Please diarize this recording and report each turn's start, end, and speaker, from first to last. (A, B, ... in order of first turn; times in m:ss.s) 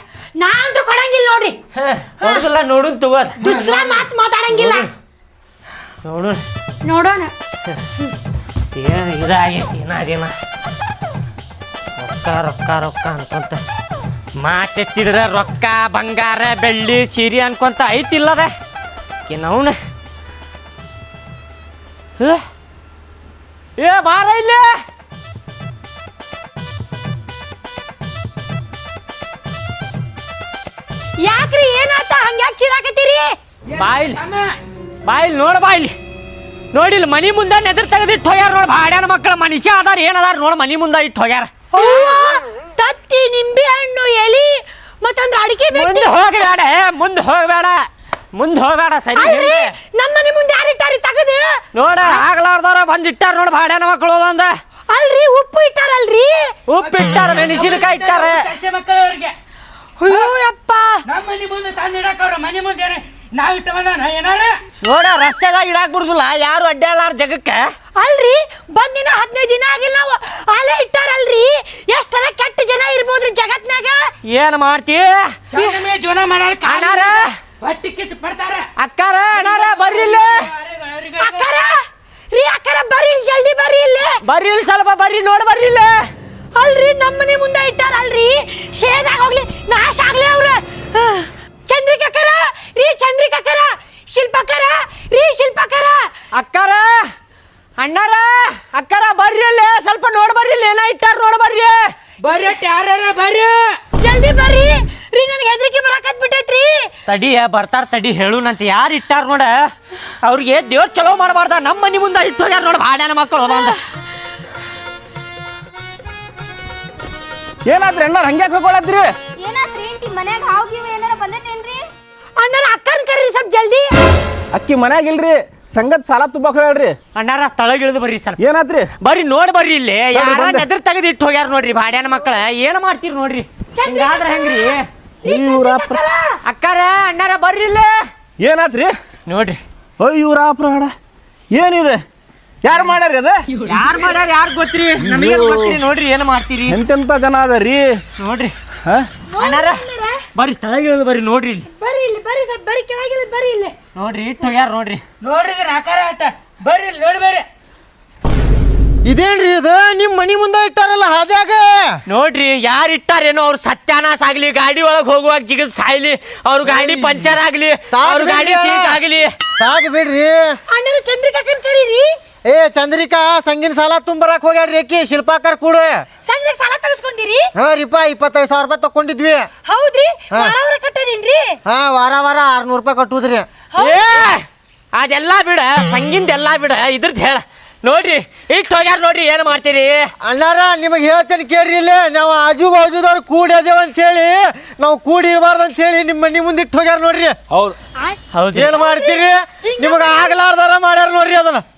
0:00.4-0:01.6 A
0:01.8-0:03.4 B
0:03.4-0:04.9 A
0:03.4-0:04.0 C
0:04.5-0:04.9 B
0:06.0-0:06.4 B
0:06.8-0:07.3 A
0:08.7-0:10.3 B
0:12.0-0:13.6 B
0:14.4-0:18.5 B
0:19.3-0:19.8 B
0:23.8-0:24.8 B
0:31.2-0:33.3 A
0:33.8-0:34.2 B
0:33.8-0:34.5 C
0:35.0-0:35.9 B
0:36.7-0:41.5 B
0:41.7-0:46.3 A
0:45.7-0:49.7 B
0:49.2-0:52.2 A
0:51.8-0:54.5 B
0:54.9-0:56.6 A
0:56.7-0:58.5 B
0:56.8-0:59.4 C
1:00.0-1:01.0 A
1:01.1-1:04.6 C
1:04.8-1:07.7 B
1:08.0-1:14.1 A
1:14.3-1:15.4 B
1:15.5-1:16.9 C
1:15.5-1:15.9 A
1:16.6-1:17.4 B
1:16.7-1:17.2 A
1:17.6-1:18.7 C
1:18.8-1:20.5 B
1:19.4-1:21.5 C
1:21.2-1:21.7 A
1:22.3-1:24.1 A
1:24.2-1:26.1 B
1:26.6-1:36.0 A
1:36.4-1:37.1 B
1:37.8-1:41.9 B
1:42.2-1:43.8 C
1:42.3-1:42.6 A
1:44.0-1:46.9 A
1:47.1-1:53.8 B
1:57.7-1:59.1 D
1:59.4-2:01.9 E
2:02.4-2:03.9 A
2:04.5-2:07.0 D
2:07.1-2:08.4 B
2:08.4-2:08.9 D
2:09.0-2:14.8 B
2:10.1-2:10.7 D
2:13.7-2:16.4 A
2:15.2-2:16.0 D
2:16.5-2:18.1 B
2:18.4-2:18.9 D
2:19.3-2:19.6 B
2:20.0-2:20.9 D
2:21.5-2:22.0 D
2:22.6-2:23.4 D
2:23.7-2:26.8 B
2:25.0-2:25.8 D
2:26.7-2:28.0 D
2:28.2-2:28.5 B
2:29.3-2:30.2 A
2:29.4-2:31.7 B
2:31.8-2:33.7 A
2:33.9-2:35.0 B
2:35.2-2:37.5 C
2:39.0-2:42.0 F
2:42.1-2:49.3 B
2:46.6-2:47.4 F
2:47.9-2:49.0 F
2:49.6-2:50.6 F
2:50.7-2:52.1 A
2:52.4-2:56.1 F
2:56.2-2:57.5 A
2:57.6-2:59.5 F
2:59.7-3:01.6 A
3:01.6-3:03.5 F
3:03.7-3:04.3 A
3:03.8-3:10.1 B
3:10.2-3:17.4 F
3:17.5-3:17.8 D
3:18.3-3:18.8 B
3:18.5-3:21.6 F
3:18.8-3:20.4 A